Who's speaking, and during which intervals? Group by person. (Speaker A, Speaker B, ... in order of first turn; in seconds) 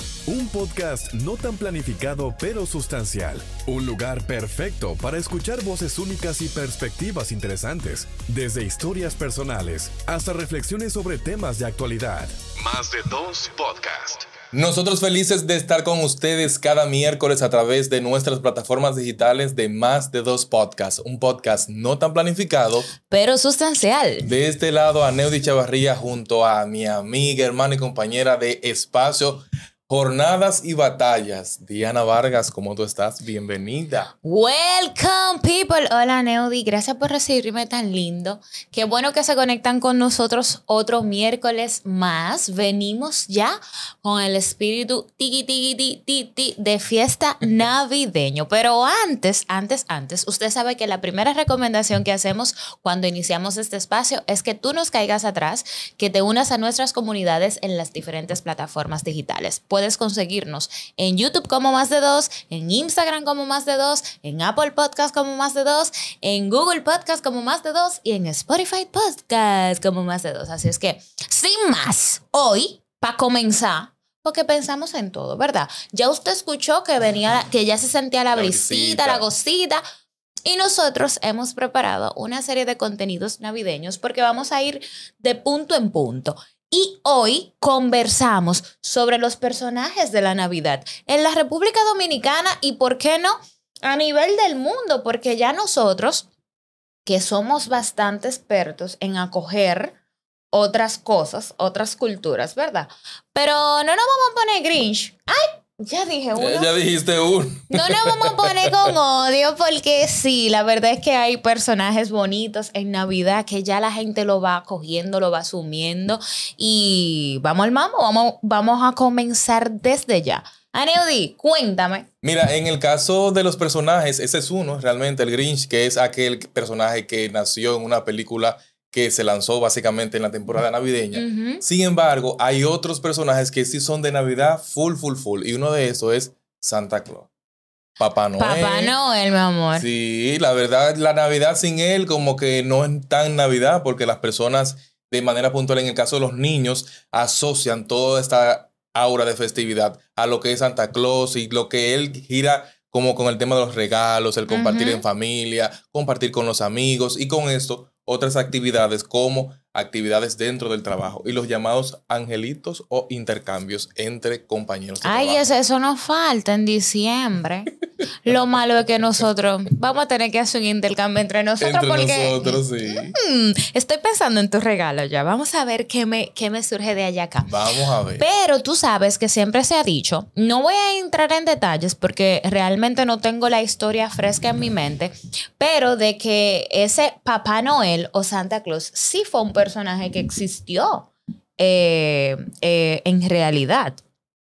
Speaker A: 0.3-14.3
Speaker B: 14.5-22.9, 24.2-34.1, 78.3-79.3, 106.3-108.9, 122.2-137.3, 138.0-138.9, 139.7-165.4, 171.6-173.1, 177.4-178.2
Speaker C: 23.1-24.3, 34.2-79.8, 80.4-96.3, 97.0-100.0, 100.5-106.7, 107.7-122.0, 131.1-131.6, 138.4-139.9, 154.5-155.0, 165.0-177.6, 178.2-194.0